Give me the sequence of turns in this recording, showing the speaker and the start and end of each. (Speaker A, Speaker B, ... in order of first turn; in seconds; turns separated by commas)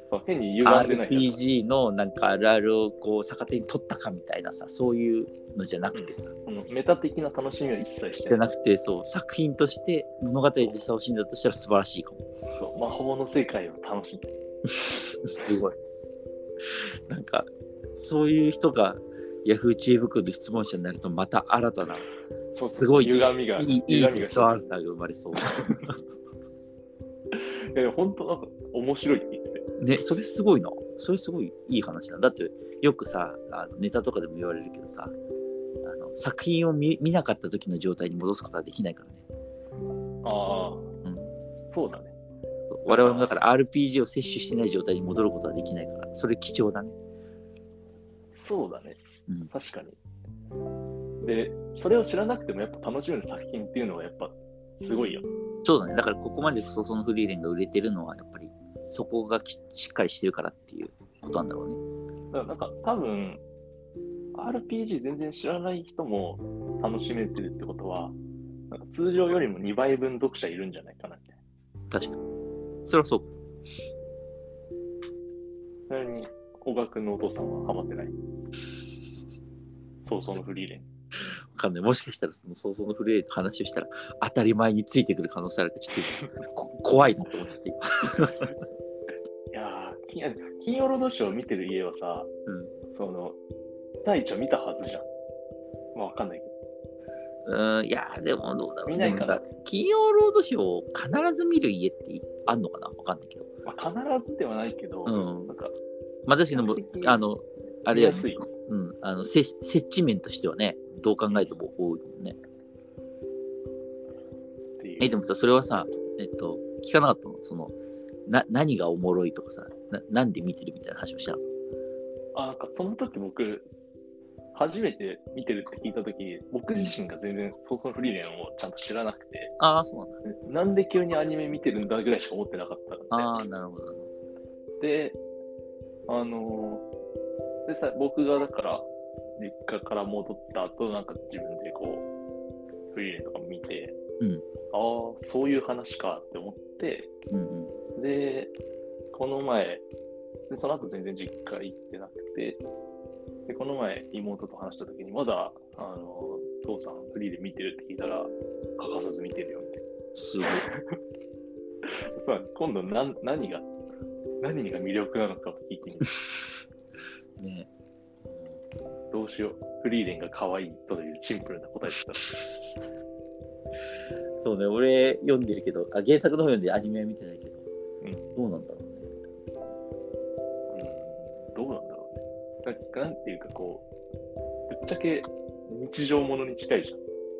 Speaker A: 0.1-1.4, Speaker B: 0.6-6.3, Speaker A: 5.9-8.4, Speaker B: 8.3-12.2, Speaker A: 12.6-14.3, Speaker B: 14.8-15.8, Speaker B: 17.1-26.0, Speaker A: 22.6-24.6, Speaker A: 27.3-29.6, Speaker B: 29.8-35.1, Speaker B: 35.8-39.2, Speaker A: 40.2-40.9, Speaker B: 41.0-41.3, Speaker A: 41.7-42.1, Speaker B: 42.7-47.0, Speaker A: 42.9-43.3, Speaker A: 48.3-50.0, Speaker A: 51.2-55.3, Speaker B: 55.6-61.8, Speaker A: 62.3-63.4, Speaker A: 64.3-68.2, Speaker A: 68.7-71.4, Speaker B: 71.9-72.2, Speaker B: 72.8-73.3, Speaker A: 75.9-78.1, Speaker A: 80.0-80.9, Speaker B: 81.5-88.4, Speaker A: 89.5-92.3, Speaker B: 92.5-92.7, Speaker A: 92.9-93.4, Speaker A: 94.0-95.1, Speaker A: 95.9-96.5, Speaker B: 97.4-103.5, Speaker A: 98.9-99.4, Speaker A: 103.6-105.8, Speaker B: 105.1-105.5, Speaker B: 106.3-112.4, Speaker A: 106.5-107.2, Speaker A: 107.9-108.5, Speaker A: 111.3-111.5, Speaker A: 114.8-115.2, Speaker B: 115.0-117.8, Speaker B: 118.3-121.5, Speaker A: 122.3-123.7, Speaker A: 124.5-129.5, Speaker B: 129.6-130.2, Speaker A: 130.2-133.3, Speaker B: 133.1-134.1, Speaker A: 134.8-135.2, Speaker A: 136.1-136.9, Speaker A: 137.7-138.9, Speaker A: 139.4-142.1, Speaker A: 142.9-143.9, Speaker A: 144.7-147.1, Speaker B: 147.3-147.7, Speaker A: 147.9-148.6, Speaker A: 149.1-149.8, Speaker A: 150.5-152.6, Speaker A: 153.5-159.8, Speaker B: 160.2-160.7, Speaker A: 160.4-161.0, Speaker A: 162.2-163.7, Speaker A: 164.4-166.1, Speaker B: 167.4-167.7, Speaker B: 168.3-168.6, Speaker A: 169.1-172.4, Speaker B: 174.4-177.6, Speaker A: 178.0-178.3, Speaker B: 178.3-179.1, Speaker A: 180.7-183.9, Speaker A: 184.7-187.0